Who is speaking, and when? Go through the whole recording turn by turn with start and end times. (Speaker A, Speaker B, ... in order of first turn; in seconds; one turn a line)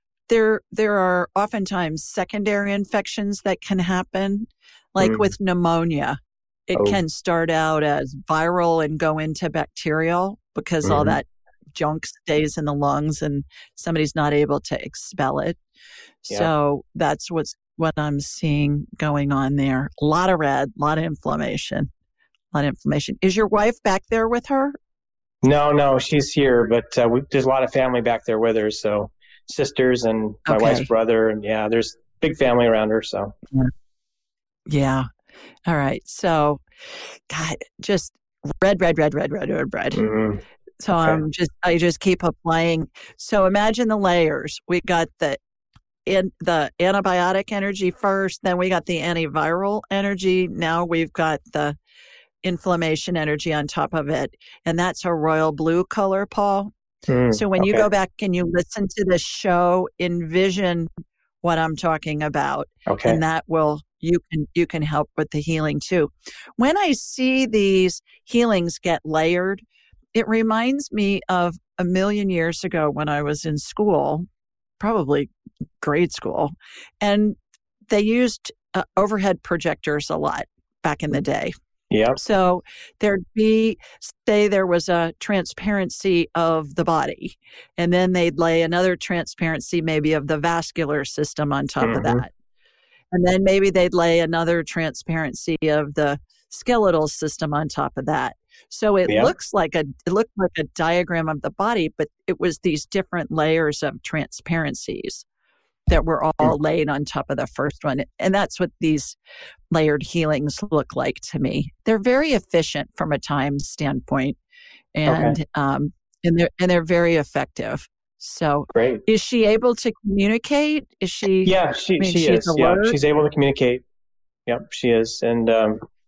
Speaker A: 0.3-15.6
Speaker B: 5.0-5.3
Speaker B: 10.8-11.2
Speaker A: 16.2-21.9
Speaker A: 22.5-24.8
Speaker B: 25.4-33.3
Speaker A: 30.5-30.9
Speaker A: 34.7-35.1
Speaker A: 35.6-36.6
Speaker A: 37.3-40.0
Speaker B: 39.9-40.4
Speaker A: 40.8-45.4
Speaker B: 40.9-41.2
Speaker A: 46.0-51.8
Speaker A: 52.4-56.7
Speaker B: 57.1-57.9
Speaker A: 57.3-60.9
Speaker A: 61.4-74.3
Speaker B: 62.9-63.2
Speaker A: 74.8-81.5
Speaker B: 81.9-82.2
Speaker A: 82.2-92.3
Speaker B: 91.8-92.2
Speaker A: 93.1-105.2
Speaker B: 99.1-99.3
Speaker A: 105.9-109.2
Speaker A: 109.7-114.4
Speaker A: 114.9-123.0
Speaker B: 115.1-115.4
Speaker B: 118.7-119.0
Speaker B: 121.4-123.8
Speaker B: 124.5-125.8